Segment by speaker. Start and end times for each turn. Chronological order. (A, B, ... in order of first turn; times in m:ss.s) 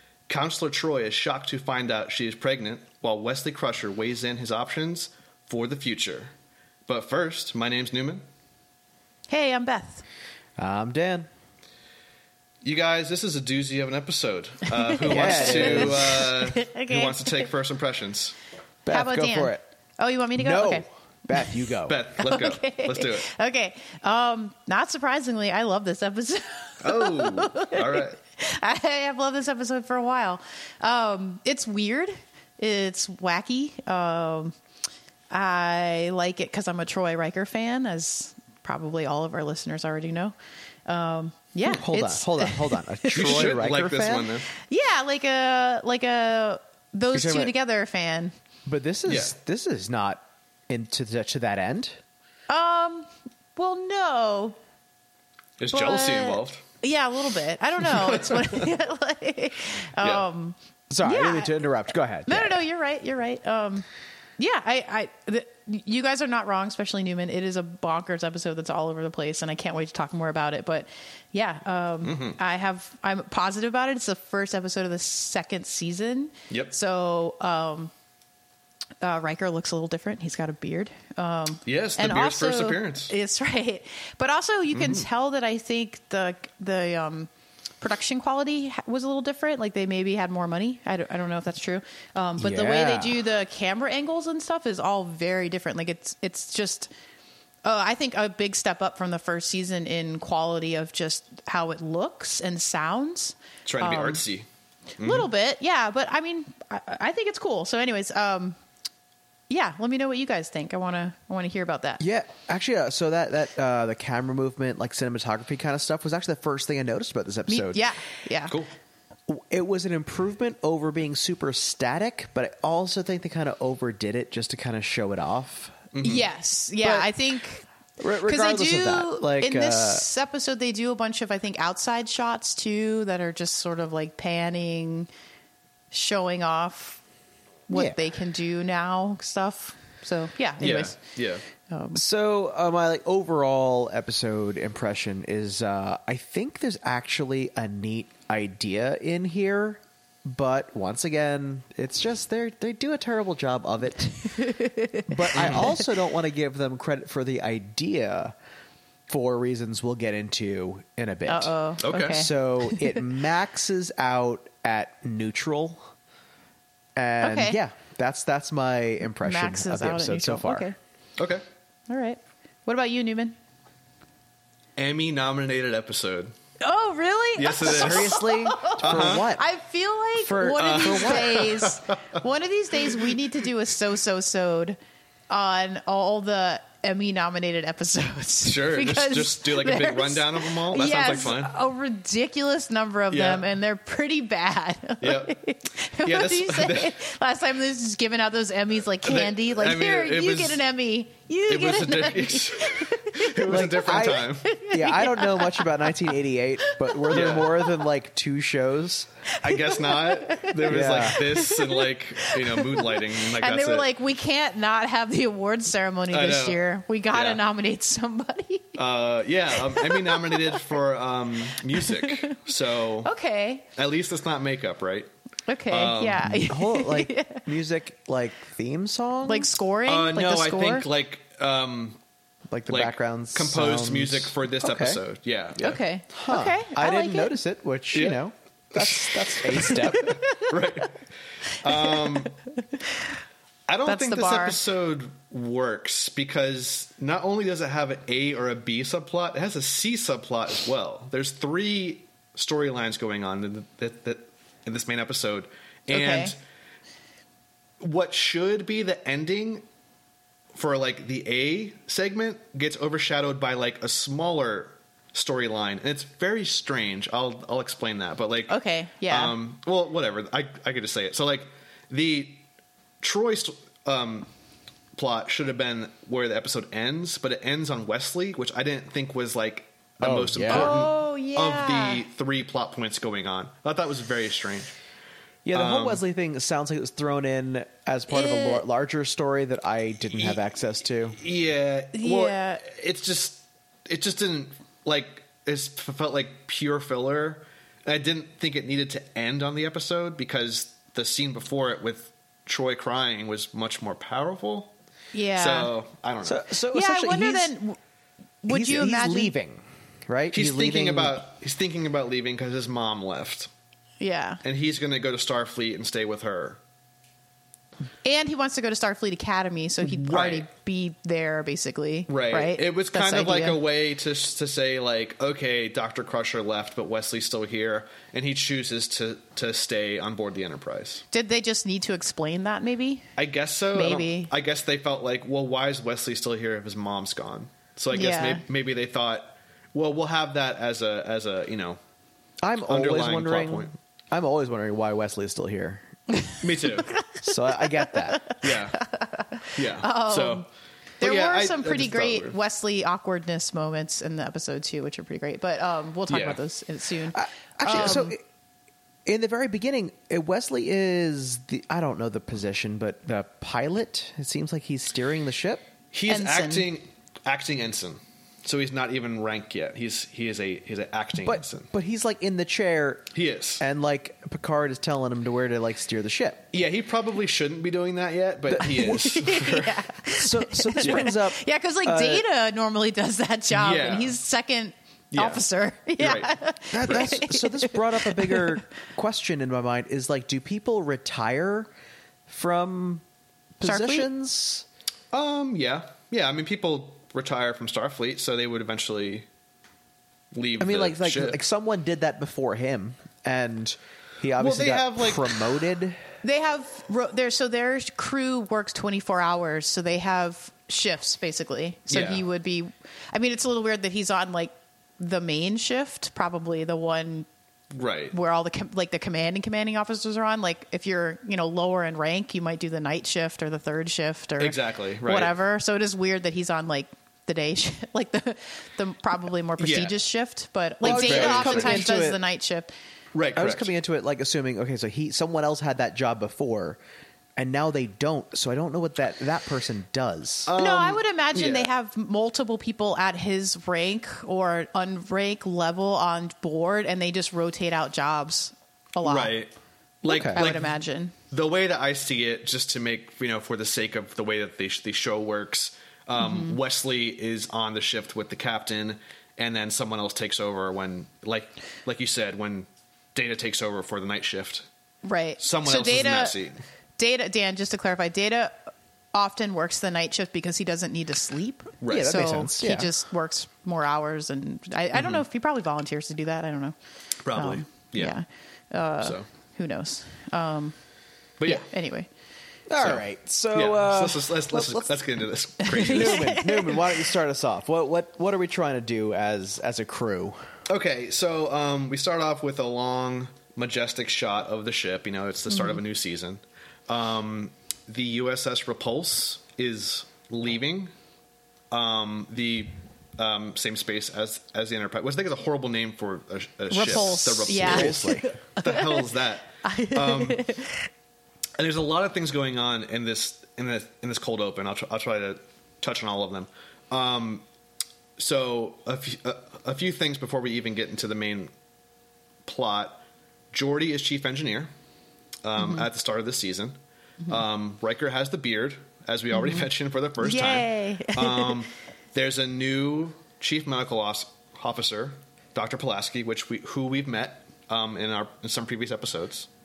0:00.3-0:06.3 A
0:06.9-0:08.2 A
0:09.3-0:10.0 B
0:10.6-0:11.3 C
0:12.6-0:18.4 A
0:14.8-0:17.5 B
0:15.1-0:16.2 C
0:18.9-0:19.6 C
0:18.9-0:20.8 B
0:20.4-0:22.0 C
0:21.9-0:23.3 A
0:22.2-0:34.6 B
0:26.8-0:28.2 A
0:35.3-0:40.4 B
0:40.9-0:43.5 B
0:41.7-0:44.3 C
0:43.1-0:44.5 A
0:44.5-0:48.3 B
0:47.1-0:47.5 C
0:48.7-0:52.0 C
0:49.1-0:49.3 A
0:52.5-0:54.6 B
0:55.6-0:56.6 A
0:55.7-1:01.6 B
0:57.8-0:58.7 A
1:00.0-1:00.3 A
1:00.9-1:02.6 C
1:02.3-1:03.9 B
1:04.4-1:17.9 B
1:12.0-1:12.4 A
1:19.0-1:27.3 B
1:21.6-1:23.1 A
1:24.7-1:25.1 A
1:27.8-1:36.9 B
1:32.4-1:33.2 C
1:37.6-1:44.2 B
1:43.6-1:44.5 A
1:45.0-1:45.3 A
1:45.0-1:48.6 B
1:49.5-1:52.0 B
1:52.0-1:57.8 C
1:57.5-1:58.6 B
1:59.3-2:05.9 C
2:05.9-2:06.3 A
2:06.0-2:07.7 B
2:06.8-2:07.1 C
2:08.0-2:10.1 C
2:08.2-2:15.1 B
2:15.9-2:17.0 B
2:17.7-2:21.0 B
2:17.7-2:18.0 C
2:20.6-2:21.4 A
2:21.6-2:22.0 B
2:22.0-2:34.4 C
2:34.3-2:35.8 B
2:35.1-2:38.3 C
2:35.4-2:35.8 A
2:39.1-2:45.8 C
2:41.3-2:43.0 B
2:41.8-2:42.2 A
2:47.0-2:50.7 C
2:47.2-2:47.6 B
2:49.2-2:50.8 B
2:51.2-2:51.4 A
2:51.9-2:53.4 B
2:54.8-2:56.3 A
2:56.6-3:04.8 B
2:57.4-2:58.2 A
2:57.6-2:59.4 C
2:58.8-2:59.3 A
3:00.2-3:01.5 C
3:00.6-3:02.0 A
3:02.9-3:03.1 A
3:05.3-3:26.1 B
3:08.4-3:11.5 A
3:13.1-3:13.5 A
3:15.0-3:15.4 A
3:16.0-3:17.0 A
3:19.0-3:20.6 A
3:21.5-3:24.5 A
3:23.4-3:29.1 C
3:26.6-3:27.1 B
3:27.1-3:27.7 A
3:29.4-3:33.9 A
3:29.4-3:38.8 B
3:30.7-3:31.2 C
3:36.1-3:36.6 A
3:37.1-3:37.4 A
3:38.8-3:43.1 A
3:39.6-3:40.6 B
3:41.7-3:42.4 B
3:43.0-3:43.6 B
3:43.8-3:45.1 A
3:45.5-3:47.5 B
3:45.7-3:46.3 A
3:46.2-3:49.5 C
3:49.2-3:50.9 B
3:49.9-3:52.0 A
3:52.5-3:55.0 C
3:52.7-3:55.8 A
3:55.6-3:57.4 B
3:56.1-4:00.2 C
3:57.9-3:58.2 A
3:58.8-4:01.0 A
3:59.6-4:00.5 B
4:01.5-4:02.3 A
4:01.6-4:03.0 B
4:03.7-4:16.4 A
4:03.9-4:04.6 B
4:15.9-4:16.3 B
4:17.8-4:19.6 A
4:20.5-4:32.4 A
4:28.5-4:29.4 B
4:33.0-4:34.3 A
4:35.0-4:44.7 A
4:40.0-4:40.7 C
4:40.5-4:42.0 B
4:45.4-4:51.2 C
4:45.5-4:46.0 A
4:48.1-4:48.6 B
4:51.1-5:04.7 A
4:51.9-4:52.6 B
5:05.1-5:05.7 B
5:05.4-5:06.4 A
5:06.2-5:07.5 C
5:06.7-5:07.8 B
5:08.4-5:09.3 B
5:08.5-5:11.2 C
5:10.3-5:13.5 A
5:14.0-5:14.4 B
5:14.4-5:16.6 A
5:18.0-5:23.6 B
5:19.8-5:20.5 A
5:22.1-5:31.0 A
5:31.1-5:33.0 B
5:33.2-5:41.8 A
5:33.7-5:34.3 B
5:37.9-5:38.4 B
5:42.4-5:45.8 C
5:42.7-5:43.7 A
5:46.2-5:50.5 B
5:46.4-5:46.9 A
5:47.2-5:48.3 C
5:48.4-5:48.9 A
5:49.5-5:50.5 A
5:51.0-5:58.2 B
5:51.0-5:52.4 A
5:56.1-5:56.4 A
5:57.2-5:58.2 C
5:59.1-6:05.7 C
6:05.9-6:11.7 A
6:06.1-6:06.7 B
6:11.2-6:16.5 C
6:13.1-6:13.6 A
6:16.5-6:19.8 A
6:18.5-6:19.0 C
6:18.6-6:28.6 B
6:20.1-6:22.2 C
6:23.5-6:24.2 A
6:25.1-6:25.4 A
6:26.0-6:26.3 A
6:26.7-6:31.7 C
6:32.3-6:33.0 C
6:33.6-6:34.7 C
6:33.6-6:34.1 B
6:35.1-6:39.3 A
6:40.3-6:41.4 A
6:40.6-6:46.0 C
6:44.4-6:45.4 A
6:46.2-6:57.3 B
6:51.9-6:52.2 A
6:57.7-6:58.2 A
6:58.1-7:12.7 B
7:04.4-7:05.4 A
7:09.6-7:10.0 A
7:10.8-7:11.9 A
7:10.8-7:12.2 C
7:13.1-7:13.7 A
7:13.4-7:16.8 C
7:17.4-7:20.5 C
7:20.5-7:21.7 A
7:20.6-7:29.4 B
7:29.0-7:29.5 A
7:30.0-7:30.7 A
7:30.0-7:30.4 C
7:30.3-7:31.1 B
7:31.3-7:44.7 A
7:36.2-7:36.6 B
7:45.0-7:46.4 B
7:45.4-7:46.6 A
7:47.0-7:56.8 B
7:51.8-7:52.2 A
7:51.9-7:52.9 C
7:54.9-7:55.2 A
7:57.2-7:58.1 A
7:57.3-8:00.8 B
8:01.4-8:01.6 A
8:01.4-8:02.1 B
8:02.7-8:05.0 C
8:02.8-8:06.3 A
8:05.6-8:07.0 B
8:05.7-8:10.4 C
8:10.7-8:20.9 A
8:15.5-8:15.8 B
8:21.7-8:30.4 A
8:26.7-8:29.1 B
8:27.5-8:28.2 C
8:29.6-8:30.9 B
8:31.6-8:37.4 A
8:38.2-8:41.5 A
8:42.5-8:44.7 A
8:45.4-8:46.8 A
8:45.6-8:45.9 B
8:47.3-8:59.5 A
8:49.3-8:49.7 B
8:50.2-8:51.6 B